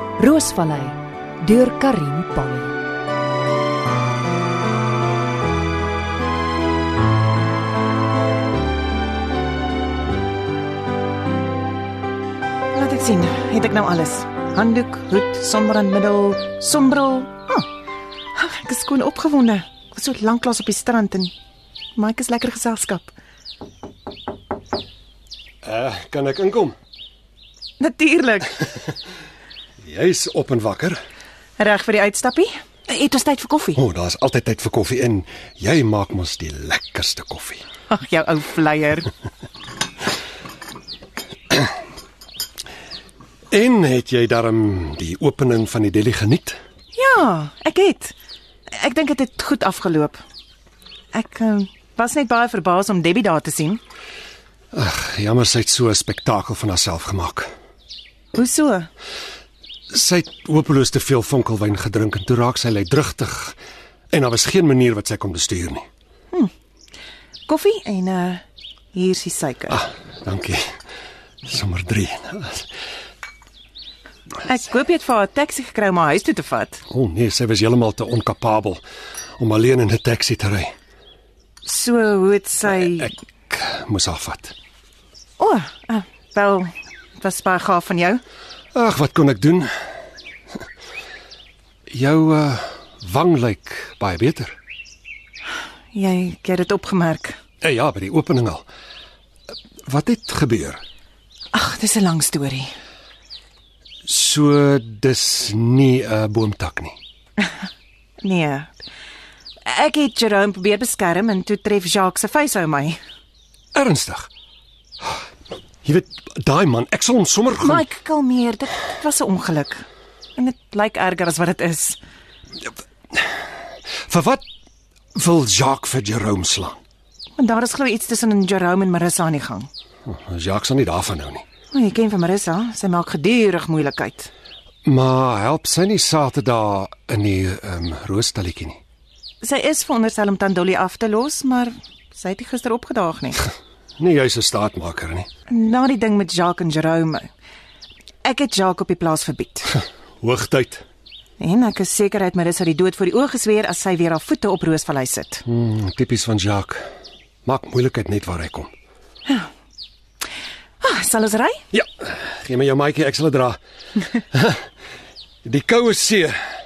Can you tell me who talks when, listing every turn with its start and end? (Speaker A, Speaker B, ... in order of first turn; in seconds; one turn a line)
Speaker A: 0.2-2.7
Speaker B: 12.7-17.6
Speaker B: 18.3-21.3
Speaker B: 21.9-23.1
Speaker C: 25.6-26.8
Speaker B: 27.8-28.6
Speaker C: 29.9-31.0
Speaker B: 31.6-33.8
Speaker C: 33.8-37.6
Speaker B: 37.9-39.1
Speaker C: 43.5-46.6
Speaker B: 46.9-48.1
Speaker B: 48.7-50.2
Speaker B: 51.1-53.8
Speaker C: 54.7-57.5
Speaker B: 58.3-58.9
Speaker C: 59.9-63.6
Speaker C: 64.1-65.8
Speaker B: 67.5-69.8
Speaker C: 69.7-70.6
Speaker C: 71.5-72.7
Speaker B: 74.4-76.8
Speaker C: 76.9-78.8
Speaker C: 79.4-80.7
Speaker B: 81.7-83.1
Speaker C: 82.7-84.5
Speaker B: 85.4-88.2
Speaker C: 88.7-89.7
Speaker C: 91.9-94.5
Speaker B: 95.9-97.4
Speaker C: 97.6-98.7
Speaker C: 99.9-100.8
Speaker B: 101.5-102.7
Speaker C: 104.1-107.0
Speaker B: 108.2-108.7
Speaker B: 109.7-113.0
Speaker C: 113.7-114.3
Speaker C: 115.8-117.8
Speaker B: 117.6-119.8
Speaker B: 120.3-122.0
Speaker C: 124.0-124.4
Speaker C: 125.1-126.8
Speaker B: 127.4-129.7
Speaker C: 130.1-131.4
Speaker B: 131.7-134.3
Speaker C: 134.8-138.8
Speaker B: 139.4-143.5
Speaker C: 144.0-145.3
Speaker B: 145.5-147.3
Speaker B: 148.2-149.7
Speaker C: 150.2-150.8
Speaker B: 151.4-155.4
Speaker C: 155.5-156.8
Speaker C: 157.4-158.7
Speaker B: 160.8-161.6
Speaker C: 161.7-163.6
Speaker C: 164.3-164.6
Speaker C: 165.4-166.4